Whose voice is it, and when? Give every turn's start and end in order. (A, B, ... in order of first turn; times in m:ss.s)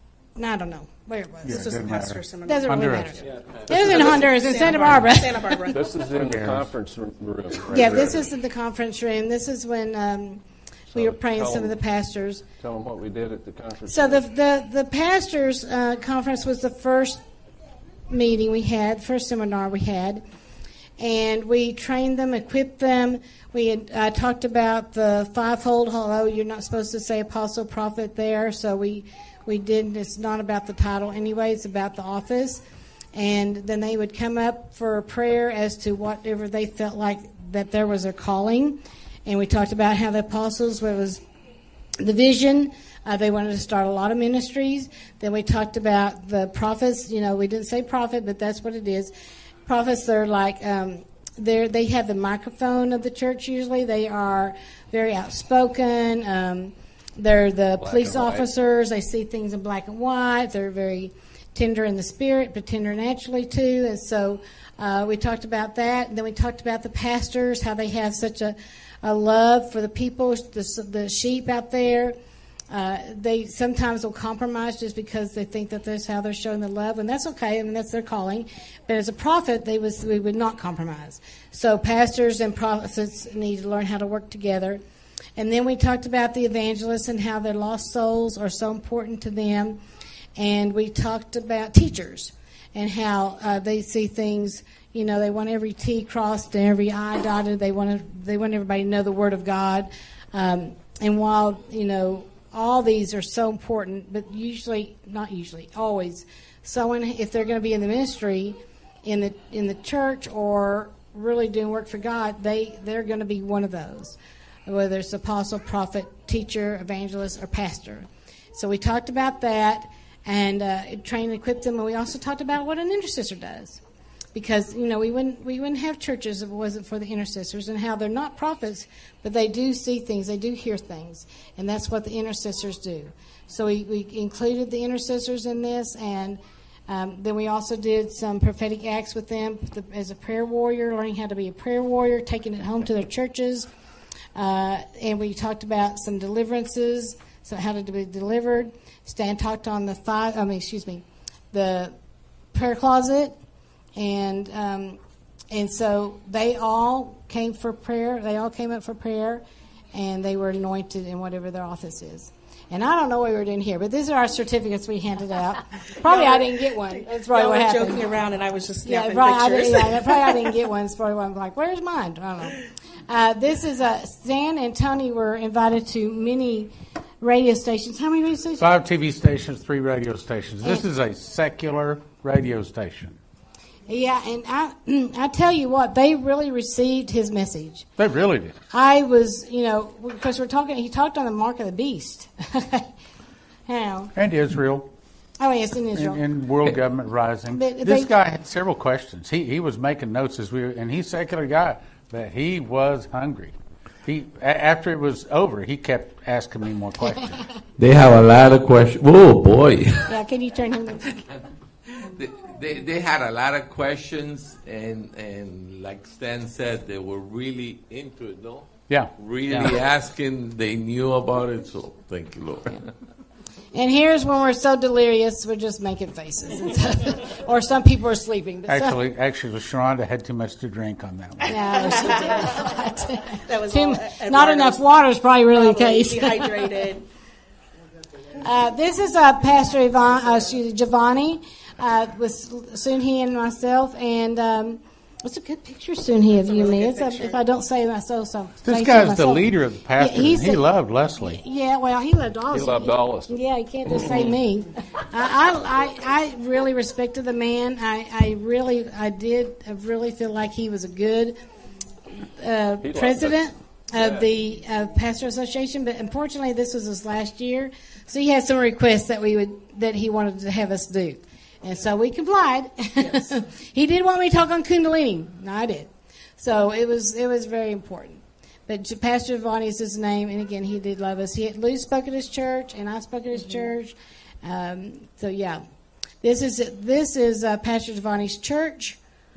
0:00.4-0:01.8 A
0:01.4-0:03.3 B
0:01.5-0:05.9 C
0:02.4-0:05.5 A
0:05.7-0:08.3 D
0:06.1-0:06.7 B
0:07.7-0:10.4 A
0:10.9-0:11.8 D
0:10.9-0:12.4 A
0:12.6-0:14.3 D
0:13.9-0:17.2 A
0:18.1-0:20.2 A
0:21.0-0:32.6 A
0:33.1-0:41.2 A
0:42.0-0:49.1 A
0:49.7-1:12.2 A
0:57.8-0:58.5 D
1:12.7-1:24.8 A
1:25.4-1:29.8 A
1:30.4-2:03.8 A
2:04.3-2:23.7 A
2:24.3-2:31.9 A
2:32.5-2:33.4 A
2:34.0-2:35.0 A
2:35.5-2:39.4 A
2:39.9-2:48.0 A
2:46.0-2:50.3 C
2:48.8-2:52.6 A
2:53.1-2:56.7 A
2:57.2-2:58.7 A
2:58.6-3:03.2 B
3:03.9-3:07.9 A
3:08.0-3:08.6 B
3:08.7-3:12.9 A
3:13.7-3:14.1 A
3:14.1-3:14.9 B
3:15.4-3:16.2 A
3:15.9-3:27.4 B
3:17.5-3:18.1 A
3:27.8-3:30.1 E
3:30.1-3:31.2 A
3:32.1-3:42.8 E
3:38.9-3:39.8 B
3:43.7-3:49.0 A
3:48.7-3:51.8 B
3:51.5-3:56.6 A
3:51.8-3:52.6 C
3:53.5-3:54.8 C
3:55.5-3:57.0 C
3:58.4-4:10.6 A
4:06.3-4:07.4 C
4:08.6-4:11.4 B
4:11.2-4:21.3 A
4:12.5-4:14.3 D
4:22.4-4:45.6 A
4:22.8-4:24.2 D
4:46.2-4:49.0 A